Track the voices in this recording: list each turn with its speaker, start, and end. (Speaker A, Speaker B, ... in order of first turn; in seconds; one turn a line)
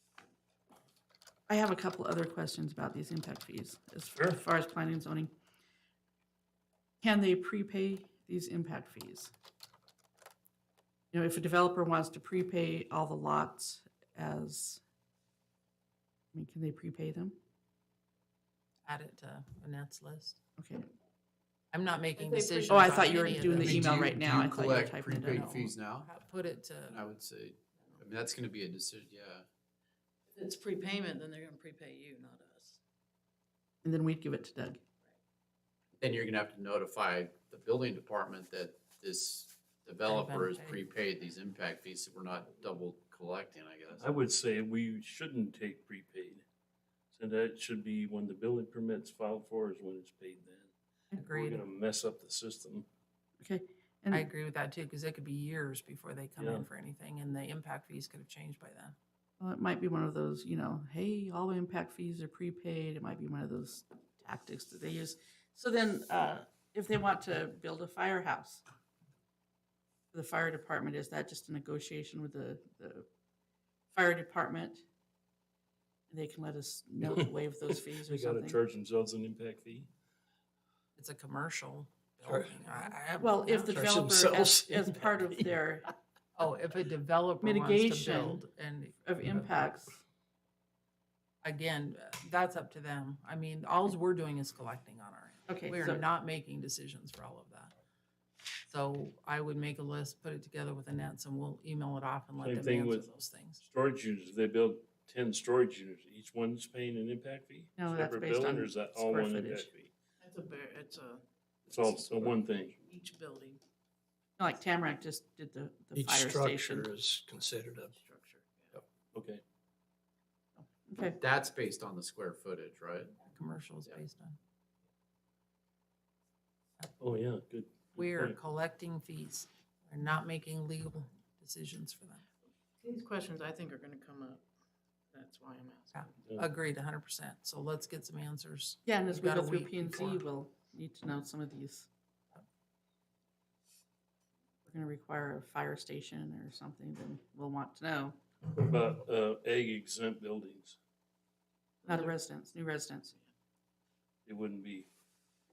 Speaker A: 1.5-5.3
Speaker B: 4.2-4.4
Speaker A: 7.0-9.3
Speaker A: 11.1-14.8
Speaker A: 16.3-17.4
Speaker C: 18.9-20.4
Speaker A: 20.6-20.9
Speaker C: 21.7-23.9
Speaker D: 22.2-23.5
Speaker A: 22.7-25.7
Speaker E: 23.5-26.1
Speaker C: 26.1-27.0
Speaker E: 26.9-29.4
Speaker D: 30.4-32.8
Speaker A: 33.8-34.8
Speaker E: 36.0-44.0
Speaker C: 40.1-40.8
Speaker B: 44.0-46.4
Speaker B: 47.1-50.7
Speaker C: 51.1-51.6
Speaker B: 51.3-52.9
Speaker A: 53.4-54.3
Speaker C: 54.1-59.0
Speaker B: 56.4-56.7
Speaker A: 59.4-68.6
Speaker A: 70.1-73.1
Speaker A: 73.9-74.8
Speaker A: 76.1-78.6
Speaker B: 78.0-79.9
Speaker C: 81.0-83.9
Speaker F: 82.3-82.6
Speaker A: 83.2-85.9
Speaker F: 83.7-85.6
Speaker C: 86.4-89.4
Speaker A: 87.4-88.4
Speaker A: 89.0-90.0
Speaker C: 91.4-97.7
Speaker A: 95.5-96.0
Speaker C: 98.7-103.6
Speaker B: 102.4-109.9
Speaker A: 107.8-109.7
Speaker D: 110.2-111.2
Speaker B: 111.7-112.8
Speaker D: 111.8-112.3
Speaker D: 112.8-113.6
Speaker A: 114.4-116.9
Speaker F: 116.0-117.9
Speaker D: 117.9-118.8
Speaker B: 119.1-119.4
Speaker A: 120.6-121.2
Speaker E: 121.2-123.2
Speaker C: 123.2-124.4
Speaker B: 127.0-128.4
Speaker C: 128.0-132.2
Speaker D: 132.8-134.4
Speaker D: 135.1-136.1
Speaker C: 135.9-140.2
Speaker A: 138.8-141.9
Speaker A: 144.7-148.2
Speaker B: 148.5-150.8
Speaker D: 151.8-152.2
Speaker A: 151.9-153.1
Speaker B: 154.3-154.9